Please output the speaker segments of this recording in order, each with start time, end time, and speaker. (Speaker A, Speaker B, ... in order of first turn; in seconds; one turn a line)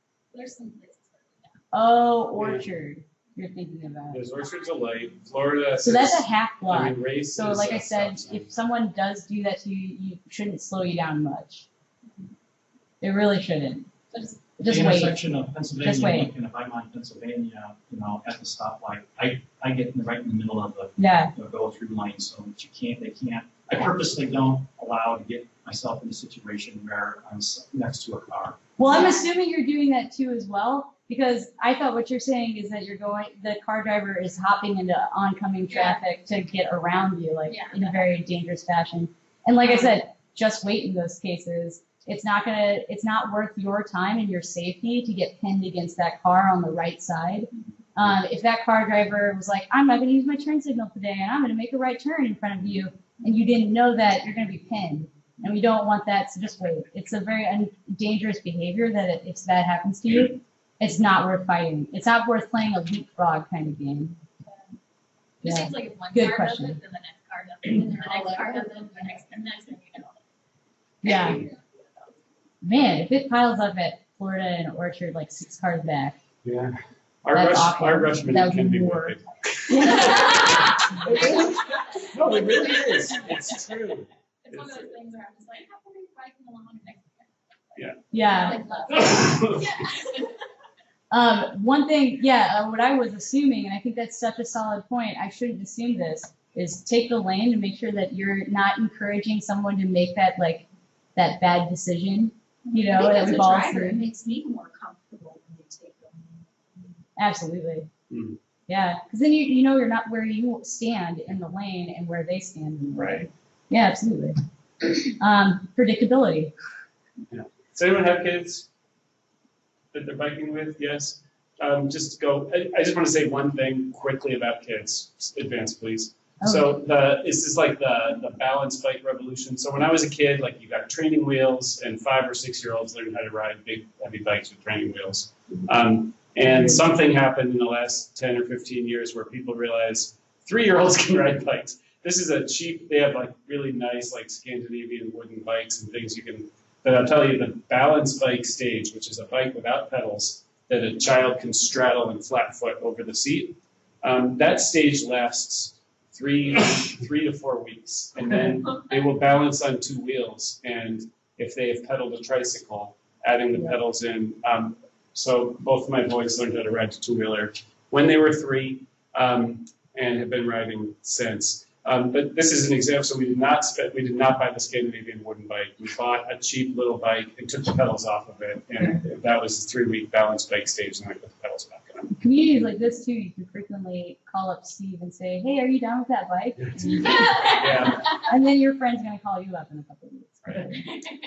Speaker A: 0.3-1.6
Speaker B: 1.7-4.2
Speaker C: 2.4-2.6
Speaker C: 4.1-8.5
Speaker B: 5.8-11.7
Speaker B: 13.0-13.9
Speaker B: 14.6-15.2
Speaker D: 14.6-28.6
Speaker B: 15.8-16.3
Speaker B: 21.0-21.3
Speaker B: 28.8-64.2
Speaker A: 35.7-36.0
Speaker A: 37.5-38.0
Speaker A: 65.4-70.2
Speaker B: 65.4-66.8
Speaker E: 67.8-69.0
Speaker B: 71.0-71.4
Speaker A: 71.0-71.7
Speaker B: 72.6-76.2
Speaker C: 76.4-84.9
Speaker B: 77.3-79.2
Speaker B: 79.7-81.6
Speaker A: 80.2-83.6
Speaker A: 84.4-87.3
Speaker C: 87.8-88.0
Speaker B: 88.1-88.8
Speaker A: 88.2-90.3
Speaker C: 88.9-89.8
Speaker B: 91.1-104.0
Speaker E: 102.7-106.4
Speaker A: 102.9-103.9
Speaker B: 107.2-107.9
Speaker C: 108.1-108.4
Speaker B: 108.7-114.3
Speaker C: 113.0-113.2
Speaker B: 115.0-116.5
Speaker C: 117.3-118.7
Speaker C: 119.9-182.1
Speaker B: 126.4-126.7
Speaker B: 136.4-136.8
Speaker B: 182.2-190.8
Speaker C: 186.8-188.2
Speaker A: 187.2-187.5